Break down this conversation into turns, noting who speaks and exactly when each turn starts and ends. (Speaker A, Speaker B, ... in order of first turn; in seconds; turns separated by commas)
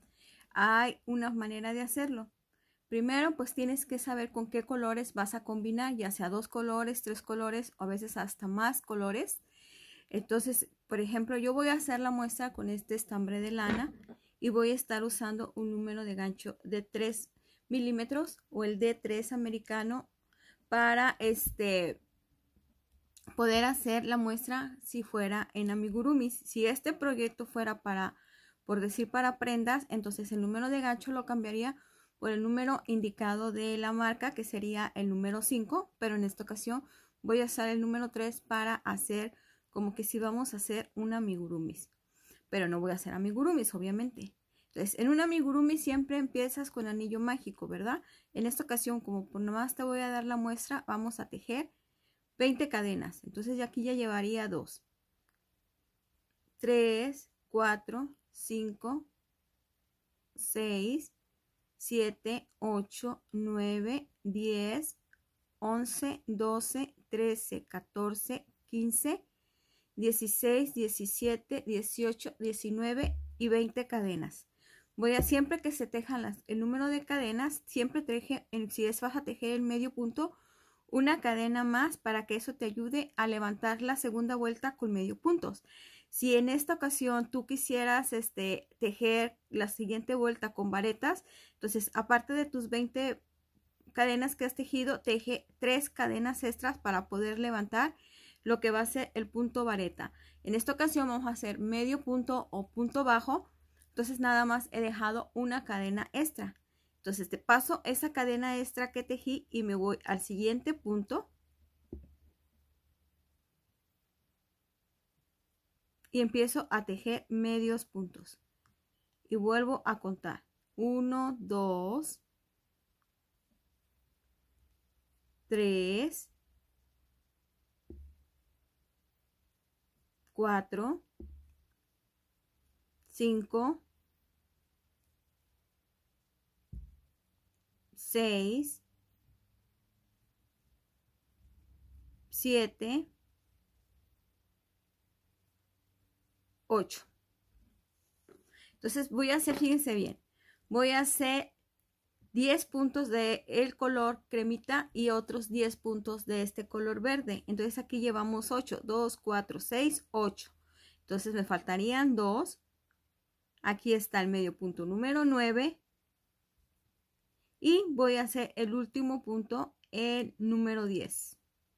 Speaker A: 0.5-2.3, Speaker A: 2.9-9.4, Speaker A: 10.1-20.1, Speaker A: 20.7-22.0, Speaker A: 23.3-41.9, Speaker A: 42.5-51.7, Speaker A: 52.4-54.8, Speaker A: 56.6-59.1, Speaker A: 60.3-61.1, Speaker A: 61.8-65.0, Speaker A: 65.6-69.2, Speaker A: 70.0-80.4, Speaker A: 80.9-93.2, Speaker A: 93.9-111.3, Speaker A: 116.1-118.4, Speaker A: 119.3-122.2, Speaker A: 125.5-126.3, Speaker A: 130.3-131.1, Speaker A: 133.1-133.8, Speaker A: 137.9-138.8, Speaker A: 142.3-143.1, Speaker A: 146.7-147.1, Speaker A: 148.8-151.6, Speaker A: 152.3-160.5, Speaker A: 161.1-162.6, Speaker A: 163.6-165.8, Speaker A: 167.6-171.4